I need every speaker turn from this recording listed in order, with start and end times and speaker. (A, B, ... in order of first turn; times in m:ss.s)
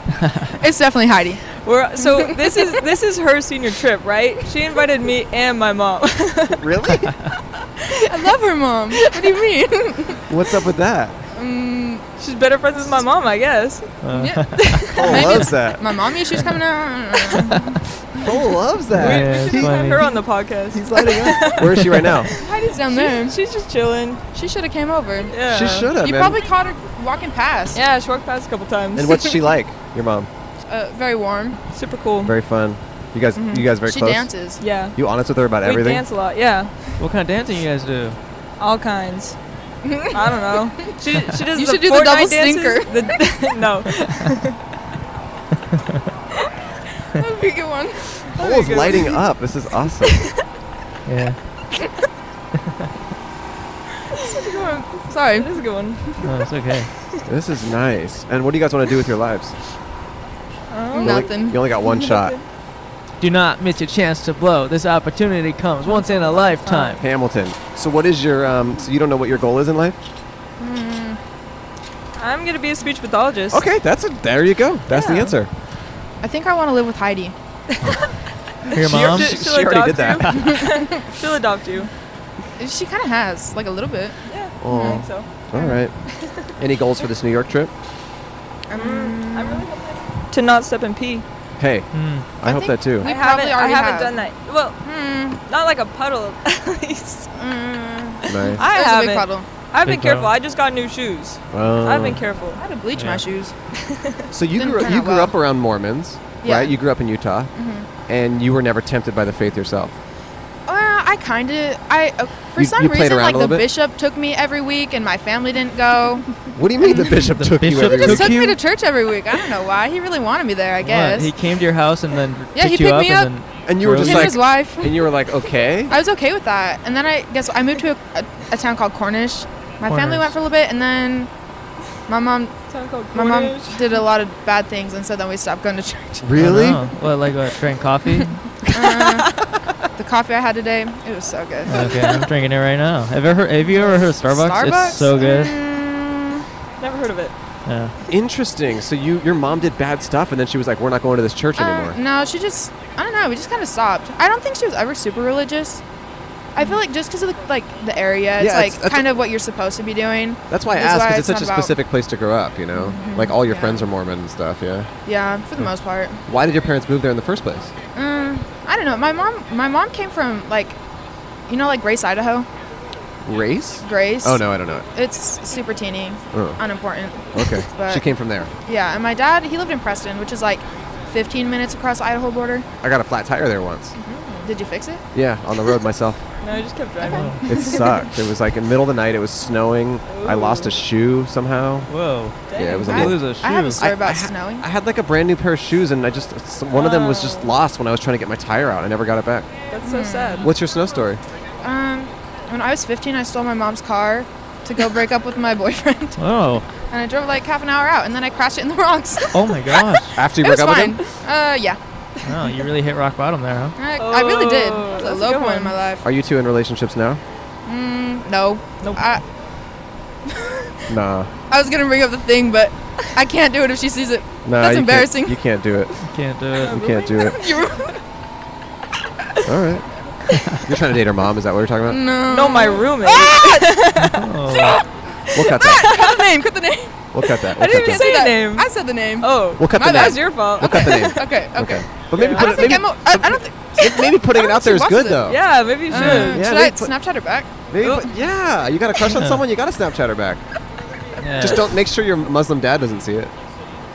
0:00.6-0:01.4 A
0:01.5-0:06.6 B
0:02.0-0:02.8 A
0:06.5-0:07.2 C
0:08.1-0:10.2 A
0:08.9-0:09.3 B
0:10.3-0:11.2 C
0:11.3-0:12.1 A
0:12.2-0:14.0 B
0:14.0-0:14.8 D
0:14.1-0:18.3 A
0:14.6-0:15.4 B
0:14.9-0:15.8 C
0:18.2-0:20.0 C
0:18.9-0:20.0 D
0:18.9-0:24.2 B
0:20.7-0:22.3 C
0:22.4-0:23.4 A
0:24.3-0:27.8 A
0:25.3-0:25.9 B
0:25.5-0:26.4 C
0:27.7-0:29.4 B
0:29.0-0:30.3 C
0:30.7-0:31.6 A
0:31.7-0:32.3 B
0:32.2-0:34.3 C
0:33.4-0:33.6 B
0:33.7-0:34.6 A
0:34.6-0:35.0 B
0:35.0-0:36.0 C
0:35.6-0:36.7 B
0:37.0-0:38.2 D
0:38.6-0:39.4 B
0:39.8-0:41.0 A
0:40.1-0:44.6 B
0:41.5-0:43.2 A
0:47.2-0:48.3 A
0:48.4-0:49.2 B
0:48.4-0:50.3 C
0:50.1-0:50.4 B
0:51.1-0:51.4 D
0:54.2-0:54.6 B
0:54.2-0:55.7 A
0:55.2-0:56.3 B
0:56.2-0:56.9 D
0:57.3-0:59.6 C
1:00.7-1:02.4 B
1:01.0-1:01.7 A
1:01.0-1:02.4 C
1:03.2-1:07.0 D
1:06.1-1:06.9 B
1:06.3-1:06.9 A
1:07.0-1:10.0 C
1:10.6-1:11.2 A
1:12.2-1:13.6 B
1:13.5-1:15.5 C
1:14.9-1:15.4 B
1:16.2-1:17.4 A
1:17.7-1:21.9 B
1:18.7-1:19.4 D
1:18.9-1:20.6 C
1:20.3-1:21.0 A
1:22.6-1:25.7 A
1:24.3-1:25.5 B
1:24.6-1:25.9 C
1:26.1-1:26.5 B
1:26.6-1:27.7 C
1:28.7-1:29.7 A
1:28.7-1:31.2 B
1:31.6-1:33.1 C
1:31.9-1:32.3 D
1:32.4-1:34.3 A
1:33.0-1:34.8 B
1:34.8-1:35.4 A
1:35.5-1:37.3 B
1:37.4-1:39.5 A
1:38.3-1:38.6 C
1:38.4-1:42.6 B
1:39.8-1:40.3 D
1:41.5-1:42.2 C
1:42.6-1:43.5 A
1:43.0-1:43.2 D
1:43.7-1:44.2 B
1:44.3-1:47.5 C
1:44.6-1:45.3 A
1:46.4-1:46.8 A
1:47.6-1:47.9 A
1:48.1-1:50.0 C
1:50.7-2:01.3 A
1:52.6-1:53.7 C
1:56.5-1:58.4 C
1:57.3-1:58.6 D
2:00.8-2:04.4 D
2:02.5-2:03.3 A
2:03.7-2:06.0 C
2:04.0-2:05.0 A
2:05.9-2:11.3 A
2:09.9-2:10.3 D
2:12.1-2:12.6 A
2:12.7-2:14.0 B
2:13.1-2:16.6 A
2:16.2-2:16.8 C
2:16.4-2:18.4 D
2:18.2-2:19.3 A
2:20.0-2:22.0 A
2:21.7-2:25.5 D
2:21.7-2:22.3 B
2:23.7-2:26.4 A
2:26.8-2:27.4 B
2:27.7-2:27.9 D
2:28.1-2:32.0 C
2:31.6-2:35.8 A
2:36.6-2:41.8 A
2:38.4-2:39.1 C
2:40.5-2:44.9 C
2:42.8-2:43.9 A
2:45.1-2:46.2 A
2:46.3-2:47.7 C
2:48.0-2:50.8 A
2:51.5-2:52.5 A
2:53.2-2:54.9 C
2:53.8-2:58.1 A
2:56.3-2:56.6 C
2:57.3-2:58.5 C
2:58.7-3:02.7 A
3:02.8-3:04.0 C
3:04.0-3:04.5 B
3:04.4-3:05.0 A
3:05.1-3:06.2 C
3:06.4-3:08.0 B
3:07.1-3:07.8 A
3:07.1-3:07.4 D
3:07.4-3:11.9 C
3:10.1-3:10.8 B
3:11.9-3:12.4 D
3:12.5-3:13.0 B
3:12.6-3:19.5 C
3:12.9-3:14.6 A
3:12.9-3:13.8 D
3:16.7-3:17.5 B
3:19.7-3:20.5 B
3:19.8-3:20.5 A
3:20.4-3:21.2 C
3:21.6-3:26.2 A
3:26.2-3:26.7 D
3:26.9-3:29.8 A
3:29.3-3:30.2 D
3:30.2-3:31.0 C
3:30.4-3:31.8 A
3:32.2-3:33.8 D
3:33.8-3:36.0 A
3:34.0-3:35.8 B
3:36.0-3:37.2 C
3:37.7-3:39.2 A
3:40.3-3:40.9 A
3:40.9-3:41.3 C
3:41.5-3:45.4 A
3:44.4-3:45.9 C
3:46.1-3:46.8 D
3:46.6-3:47.5 B
3:46.7-3:47.4 C
3:46.8-3:48.0 A
3:49.4-3:49.8 C
3:50.3-3:50.6 D
3:50.6-3:52.0 C
3:51.9-3:53.8 A
3:52.2-3:54.8 B
3:54.0-3:54.8 D
3:54.5-3:54.8 A
3:55.3-3:55.9 C
3:55.4-3:57.1 A
3:55.6-3:56.2 B
3:57.1-3:58.1 C
3:57.4-4:01.2 B
3:57.7-4:05.3 A
3:59.6-4:05.4 C
4:02.1-4:02.8 B
4:05.2-4:06.5 B
4:05.9-4:07.7 A
4:06.0-4:06.9 C
4:07.7-4:10.4 C
4:07.8-4:08.1 B
4:09.1-4:09.4 D
4:11.2-4:11.7 D
4:11.4-4:13.3 C